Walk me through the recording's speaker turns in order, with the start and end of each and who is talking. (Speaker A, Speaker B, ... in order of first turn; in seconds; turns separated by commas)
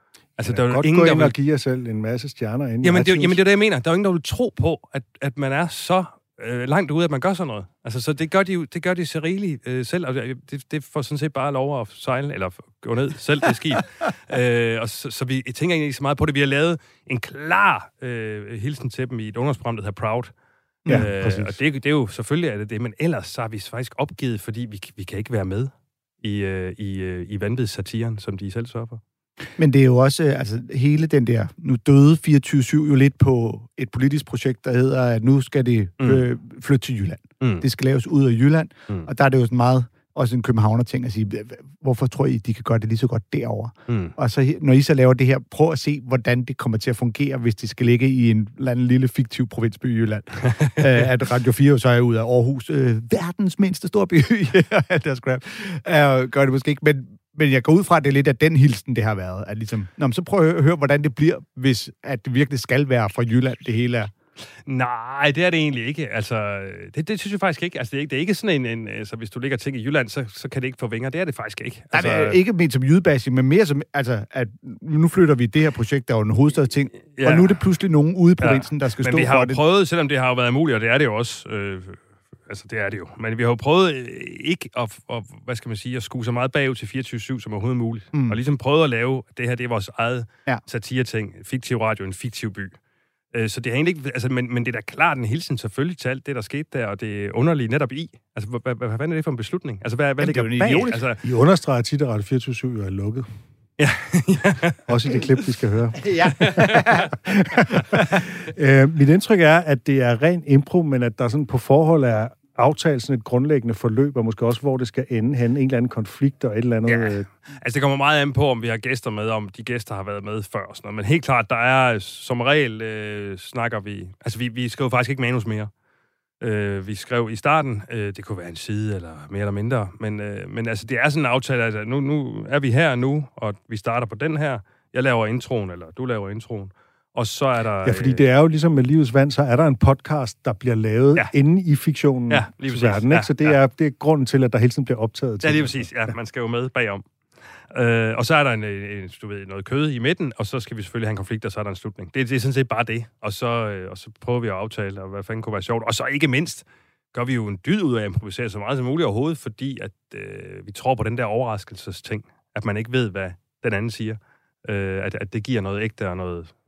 Speaker A: 0.4-1.4, Speaker B: 0.5-3.4, Speaker A: 2.8-20.3, Speaker C: 20.9-21.1, Speaker A: 20.9-29.0, Speaker B: 20.9-21.6, Speaker C: 29.6-64.1, Speaker A: 36.0-36.2, Speaker A: 43.9-44.1, Speaker A: 50.6-51.0, Speaker A: 64.7-72.4, Speaker C: 71.9-79.6, Speaker A: 77.2-77.6, Speaker A: 78.4-92.8, Speaker C: 88.1-88.4, Speaker A: 93.3-101.2, Speaker B: 100.2-103.3, Speaker C: 100.2-101.1, Speaker A: 103.8-104.8, Speaker B: 104.9-117.3, Speaker C: 106.0-107.1, Speaker A: 106.4-106.8, Speaker A: 116.9-125.7, Speaker A: 126.4-138.2, Speaker B: 137.8-145.9, Speaker A: 142.3-143.6, Speaker A: 145.4-147.0, Speaker A: 147.7-166.5